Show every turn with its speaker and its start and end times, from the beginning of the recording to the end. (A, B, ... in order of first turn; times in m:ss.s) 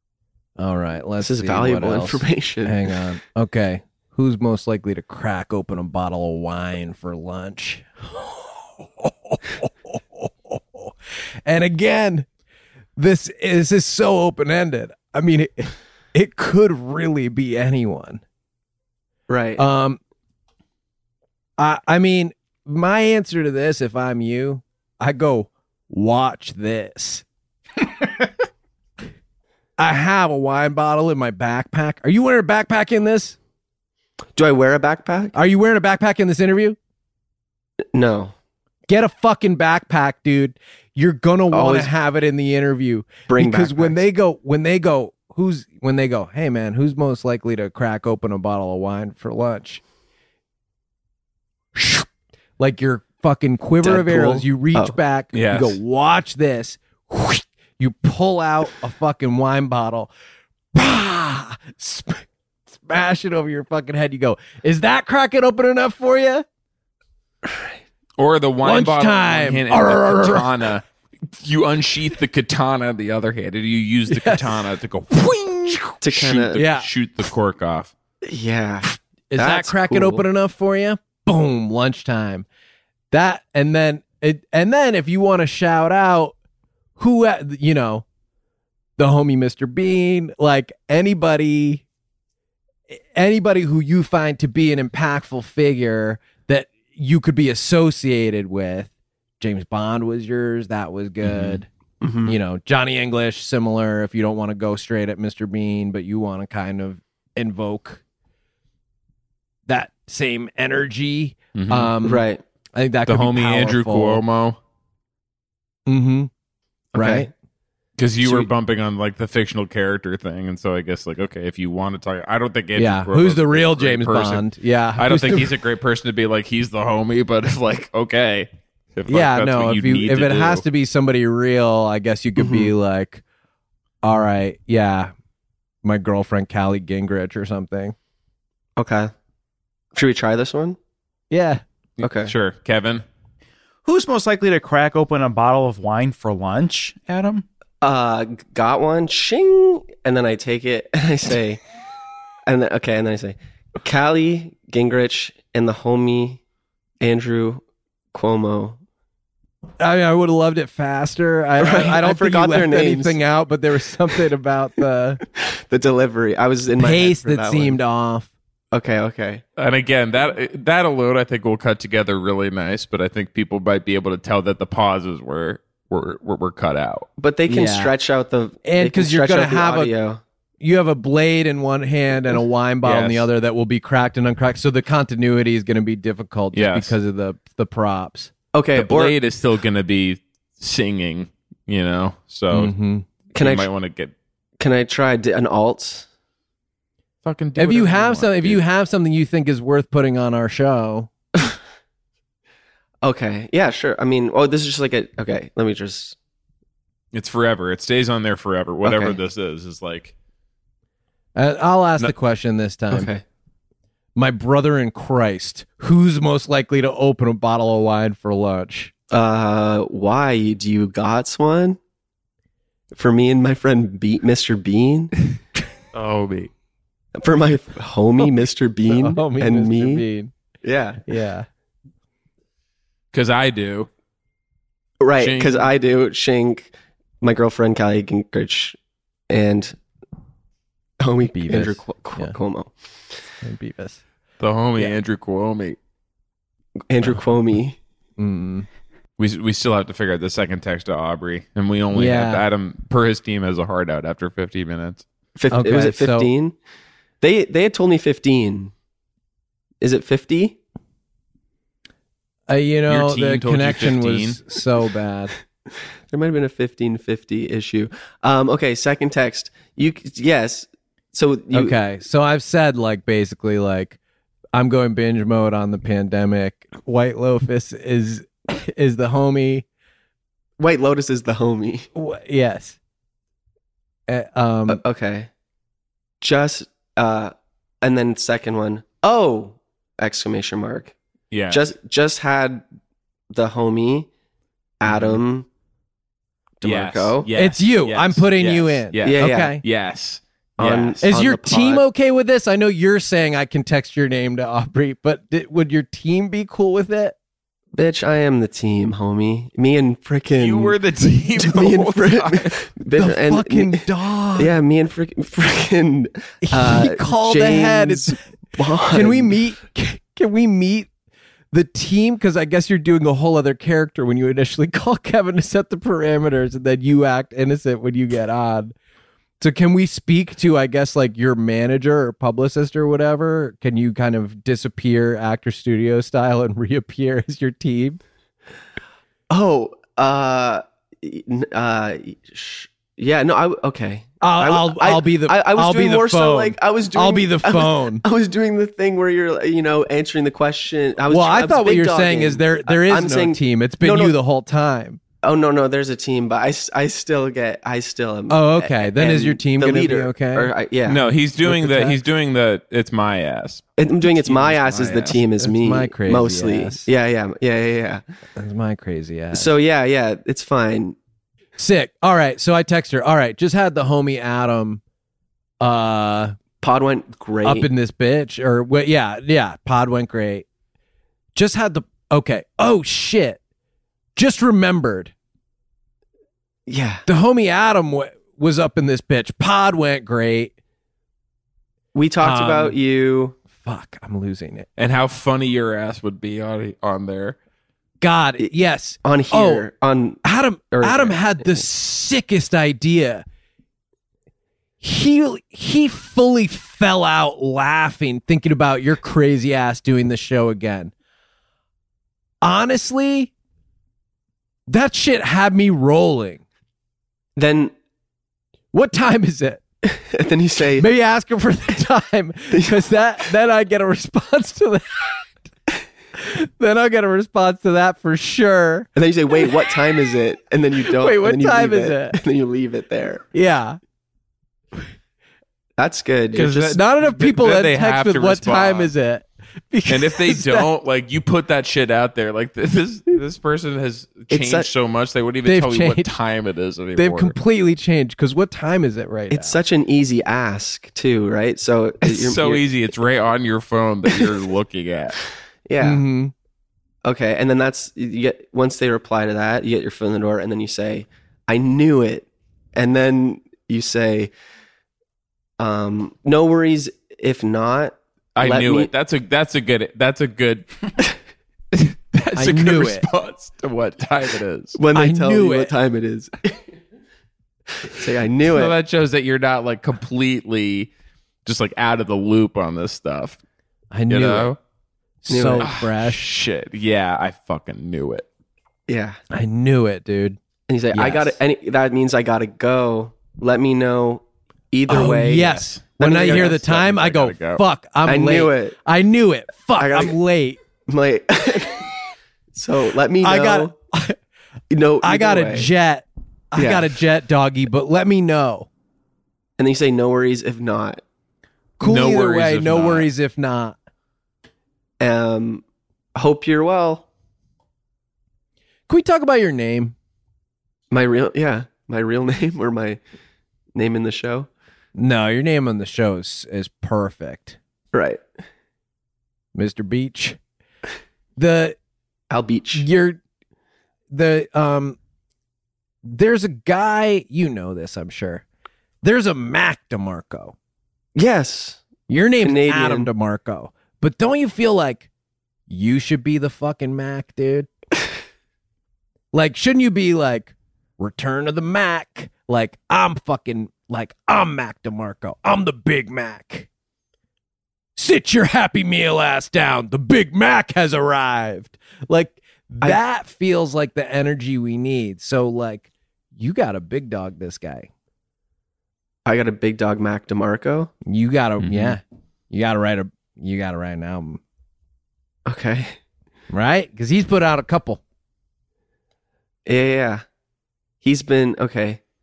0:00.6-0:10.9 A
0:01.2-0:02.9 B
0:11.4-0:12.3 A
0:13.0-0:18.2 A
0:19.3-0:19.6 B
0:19.6-0:20.0 A
0:21.6-0:27.2 A
0:29.8-0:33.4 A
0:34.4-0:35.3 B
0:35.3-0:36.8 A
0:37.9-0:38.3 B
0:38.9-0:49.8 A
0:41.5-0:41.9 B
0:43.3-0:44.0 B
0:51.7-0:52.1 A
0:52.6-1:00.1 A
0:53.8-0:55.0 B
0:55.3-0:55.8 C
1:00.7-1:06.4 A
1:07.4-1:07.7 B
1:08.2-1:10.8 C
1:08.6-1:10.5 A
1:11.4-1:17.9 C
1:14.1-1:14.4 A
1:16.0-1:16.6 B
1:16.6-1:16.9 A
1:18.2-1:20.2 B
1:19.3-1:22.4 A
1:23.1-1:26.3 A
1:27.0-1:28.0 A
1:29.0-1:31.8 A
1:32.9-1:41.7 A
1:41.2-1:41.6 C
1:42.0-1:42.4 B
1:42.2-1:48.0 A
1:49.7-1:52.2 A
1:51.5-1:51.9 C
1:52.0-1:52.4 B
1:52.7-1:54.2 A
1:53.1-1:54.6 C
1:55.9-1:56.3 A
1:56.9-1:57.3 B
1:57.0-1:57.3 A
1:58.0-2:10.6 C
1:58.2-1:58.5 A
2:02.7-2:05.5 A
2:09.1-2:13.2 A
2:12.4-2:12.7 B
2:14.0-2:15.1 A
2:15.8-2:18.0 A
2:18.8-2:19.1 B
2:19.9-2:20.8 B
2:21.3-2:21.6 A
2:22.0-2:23.0 C
2:22.0-2:22.3 B
2:23.8-2:27.4 D
2:27.8-2:31.6 B
2:32.5-2:36.4 B
2:37.0-2:37.6 B
2:38.1-2:38.8 B
2:39.8-2:45.2 A
2:41.6-2:43.2 B
2:45.3-2:47.8 B
2:46.8-2:48.3 A
2:48.7-2:49.4 B
2:49.6-2:57.1 C
2:57.2-3:00.2 B
2:57.5-2:57.9 A
2:58.6-2:59.9 A
3:00.6-3:08.3 A
3:02.8-3:03.3 C
3:06.5-3:06.9 C
3:08.5-3:09.2 B
3:08.7-3:12.7 C
3:12.5-3:13.0 A
3:13.3-3:13.7 B
3:13.3-3:14.1 C
3:14.6-3:16.1 B
3:17.2-3:18.6 C
3:17.6-3:21.1 A
3:23.0-3:26.2 B
3:27.1-3:30.1 C
3:28.8-3:29.2 B
3:31.3-3:33.1 A
3:32.9-3:33.2 B
3:34.2-3:38.9 A
3:39.1-3:41.8 B
3:42.9-3:45.1 B
3:45.9-3:46.5 C
3:47.1-3:50.0 B
3:48.9-3:50.3 A
3:50.6-3:51.0 B
3:51.1-3:51.5 A
3:53.1-3:53.9 C
3:55.0-3:58.8 B
3:55.2-3:55.7 C
3:59.3-3:59.8 B
4:01.0-4:02.7 B
4:01.3-4:02.3 A
4:03.4-4:04.0 A
4:04.4-4:05.8 C
4:06.9-4:07.8 B
4:08.2-4:08.7 A
4:09.2-4:15.0 C
4:11.9-4:12.4 A
4:15.4-4:16.6 B
4:15.5-4:16.3 A
4:17.2-4:18.7 B
4:19.8-4:20.6 B
4:22.5-4:25.3 A
4:22.9-4:24.4 C
4:26.1-4:31.7 B
4:31.5-4:34.0 A
4:34.5-4:39.6 A
4:40.6-4:41.9 B
4:41.9-4:42.8 A
4:44.1-4:44.8 A
4:44.7-4:45.3 B
4:46.2-4:50.9 B
4:51.3-4:51.6 C
4:51.5-4:52.6 B
4:53.3-4:54.1 B
4:54.8-4:55.5 B
4:54.8-4:55.2 C
4:56.6-4:57.3 B
4:56.6-5:01.0 C
4:57.4-4:59.6 A
4:59.0-4:59.6 B
5:00.6-5:01.8 B
5:01.0-5:07.1 A
5:07.7-5:10.8 B
5:10.4-5:12.6 C
5:11.4-5:19.4 B
5:12.9-5:14.5 A
5:16.4-5:18.2 A
5:18.9-5:20.9 A
5:21.5-5:28.7 A
5:29.4-5:38.0 A
5:39.3-5:54.2 B
5:44.2-5:48.0 A
5:51.1-5:55.0 A
5:55.2-6:01.0 B
5:58.3-6:00.5 A
6:00.8-6:05.2 C
6:01.4-6:02.0 A
6:03.8-6:08.0 B
6:05.4-6:06.9 A
6:08.4-6:09.5 A
6:09.3-6:11.0 B
6:11.6-6:14.8 A
6:15.6-6:16.3 A
6:16.6-6:17.7 B
6:17.4-6:20.4 A
6:21.3-6:23.4 A
6:24.2-6:25.1 A
6:26.7-6:27.0 B
6:27.0-6:30.5 A
6:31.9-6:33.4 B
6:32.2-6:32.8 A
6:33.5-6:34.7 A
6:34.8-6:37.4 C
6:38.0-6:39.6 A
6:39.0-6:41.6 B
6:40.2-6:43.2 A
6:44.8-6:50.9 A
6:52.4-6:53.3 A
6:54.7-6:56.4 A
6:57.4-6:57.7 B
6:58.7-6:59.6 A
7:00.1-7:00.9 B
7:00.8-7:05.2 A
7:02.5-7:02.8 B
7:06.2-7:08.9 A
7:08.9-7:13.2 B
7:10.9-7:12.2 A
7:13.3-7:13.8 A
7:15.8-7:16.5 B
7:16.3-7:20.7 A
7:16.4-7:18.9 C
7:19.9-7:27.4 C
7:24.3-7:24.7 B
7:25.4-7:26.1 A
7:27.0-7:29.6 A
7:29.3-7:32.6 B
7:32.0-7:35.2 C
7:35.7-7:36.0 B
7:35.8-7:36.3 A
7:37.0-7:44.3 B
7:45.6-7:48.9 B
7:48.4-7:50.7 C
7:51.7-7:54.8 C
7:52.3-7:53.0 A
7:54.8-7:56.6 B
7:54.9-7:55.7 A
7:57.8-7:58.7 B
7:58.5-8:00.9 C
8:01.4-8:03.4 C
8:03.9-8:04.6 A
8:04.1-8:04.6 C
8:05.2-8:06.2 A
8:05.3-8:05.7 B
8:05.6-8:08.2 C
8:08.9-8:09.2 B
8:09.3-8:10.4 A
8:10.7-8:16.6 B
8:10.9-8:11.4 A
8:14.9-8:20.6 A
8:15.5-8:17.6 C
8:18.0-8:18.8 B
8:19.8-8:20.2 B
8:20.8-8:21.9 B
8:22.5-8:23.7 B
8:23.2-8:24.2 A
8:24.7-8:25.7 B
8:25.0-8:28.7 A
8:26.5-8:26.9 B
8:29.6-8:31.0 B
8:31.8-8:33.8 A
8:31.8-8:33.1 C
8:35.0-8:35.6 B
8:36.1-8:37.0 B
8:38.9-8:39.9 A
8:40.9-8:43.0 B
8:43.7-8:44.5 B
8:45.0-8:47.6 A
8:47.9-8:48.2 B
8:49.5-8:50.4 A
8:51.4-8:51.8 A
8:52.3-8:52.8 B
8:52.7-8:53.2 A
8:54.1-8:55.0 A
8:56.0-8:58.4 A
8:59.0-9:00.5 A
9:01.1-9:01.8 B
9:02.1-9:05.1 A
9:02.4-9:03.1 B
9:05.7-9:07.7 A
9:09.3-9:16.7 A
9:18.0-9:27.9 A
9:29.2-9:30.9 B
9:31.0-9:34.4 A
9:31.6-9:32.0 C
9:35.4-9:36.0 B
9:36.5-9:38.0 A
9:39.6-9:40.2 B
9:41.0-9:42.0 B